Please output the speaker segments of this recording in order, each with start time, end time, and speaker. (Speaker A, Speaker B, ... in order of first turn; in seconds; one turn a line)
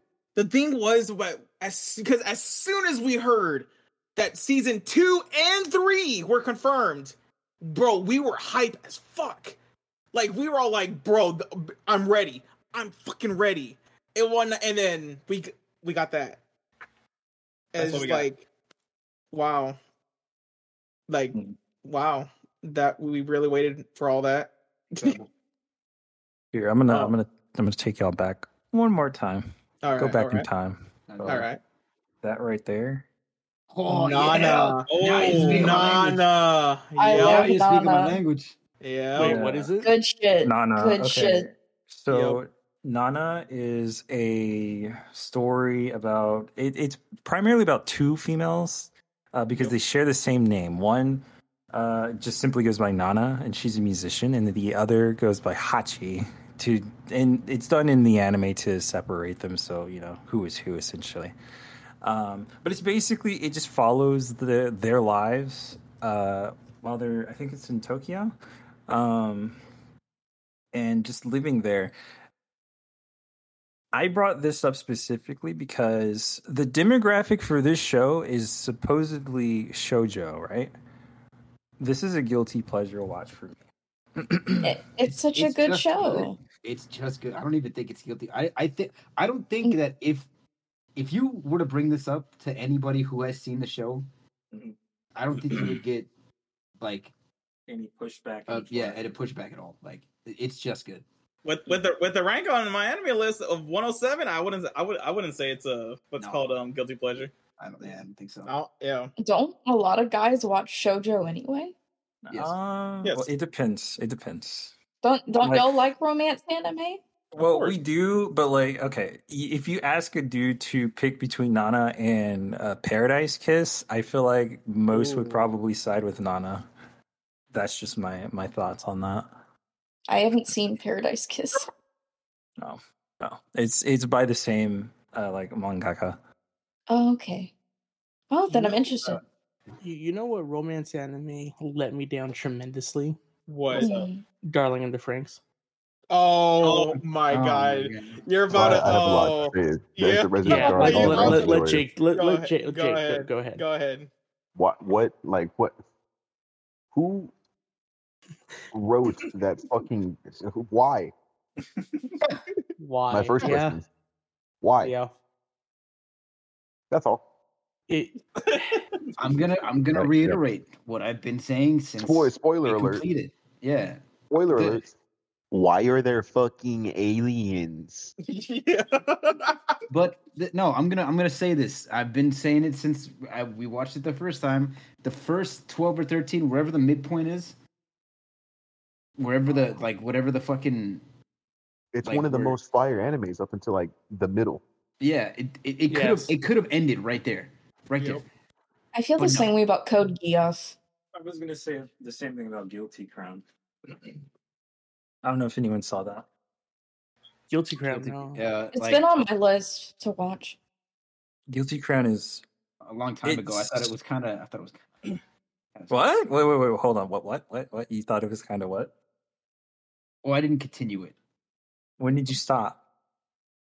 Speaker A: 0.3-9.6
Speaker A: 10.1-16.4
Speaker A: 17.7-18.4
Speaker B: 17.8-18.3
Speaker A: 19.3-19.8
Speaker A: 21.1-25.2
Speaker C: 26.5-31.5
Speaker A: 26.9-27.1
Speaker A: 29.8-30.5
Speaker D: 31.1-31.5
Speaker A: 31.2-31.6
Speaker C: 32.2-33.0
Speaker D: 33.7-36.2
Speaker A: 33.9-37.5
Speaker B: 34.3-36.2
Speaker E: 37.0-38.2
Speaker D: 37.1-38.5
Speaker A: 38.8-39.4
Speaker F: 39.1-39.9
Speaker C: 39.2-39.7
Speaker E: 39.8-41.5
Speaker C: 40.4-61.3
Speaker A: 42.1-42.4
Speaker C: 62.0-68.3
Speaker C: 68.9-69.6
Speaker C: 70.7-71.9
Speaker C: 73.9-80.7
Speaker C: 81.8-83.6
Speaker C: 84.2-84.7
Speaker E: 84.6-86.4
Speaker D: 85.3-90.3
Speaker D: 91.0-94.0
Speaker D: 95.2-96.1
Speaker D: 96.8-97.1
Speaker C: 97.7-99.0
Speaker D: 98.5-101.0
Speaker B: 101.4-107.3
Speaker D: 106.2-106.5
Speaker D: 107.6-108.5
Speaker A: 108.5-109.1
Speaker E: 109.2-111.7
Speaker C: 112.2-114.7
Speaker E: 115.0-117.0
Speaker C: 115.4-115.8
Speaker C: 117.3-126.6
Speaker A: 117.4-117.7
Speaker C: 127.5-129.3
Speaker E: 130.1-131.7
Speaker C: 132.6-136.2
Speaker E: 136.9-137.5
Speaker E: 138.3-139.2
Speaker F: 139.8-143.2
Speaker A: 143.5-144.0
Speaker E: 143.7-144.2
Speaker B: 143.8-144.1
Speaker F: 144.4-145.4
Speaker A: 146.1-154.1
Speaker B: 146.6-147.0
Speaker D: 147.3-148.9
Speaker G: 148.5-151.9
Speaker F: 150.4-153.6
Speaker G: 154.6-155.8
Speaker G: 156.9-157.3
Speaker G: 158.7-161.1
Speaker F: 162.8-163.8
Speaker G: 163.1-163.8
Speaker G: 164.6-164.9
Speaker F: 164.8-165.1
Speaker G: 166.9-167.2
Speaker F: 167.9-168.2
Speaker D: 169.2-174.8
Speaker G: 169.9-170.4
Speaker G: 172.0-173.0
Speaker G: 174.3-174.9
Speaker G: 175.5-178.1
Speaker A: 178.2-179.7
Speaker D: 179.9-187.6
Speaker D: 189.2-191.0
Speaker G: 191.9-194.6
Speaker D: 192.0-192.6
Speaker D: 195.0-198.2
Speaker F: 195.9-196.3
Speaker E: 198.9-200.8
Speaker D: 199.2-199.5
Speaker C: 201.1-204.2
Speaker C: 205.2-206.2
Speaker F: 207.5-208.4
Speaker D: 207.8-209.0
Speaker E: 208.7-210.6
Speaker C: 211.5-212.4
Speaker D: 212.8-214.8
Speaker C: 213.2-213.9
Speaker D: 215.8-216.2
Speaker C: 215.9-218.9
Speaker D: 220.2-221.2
Speaker C: 222.0-222.8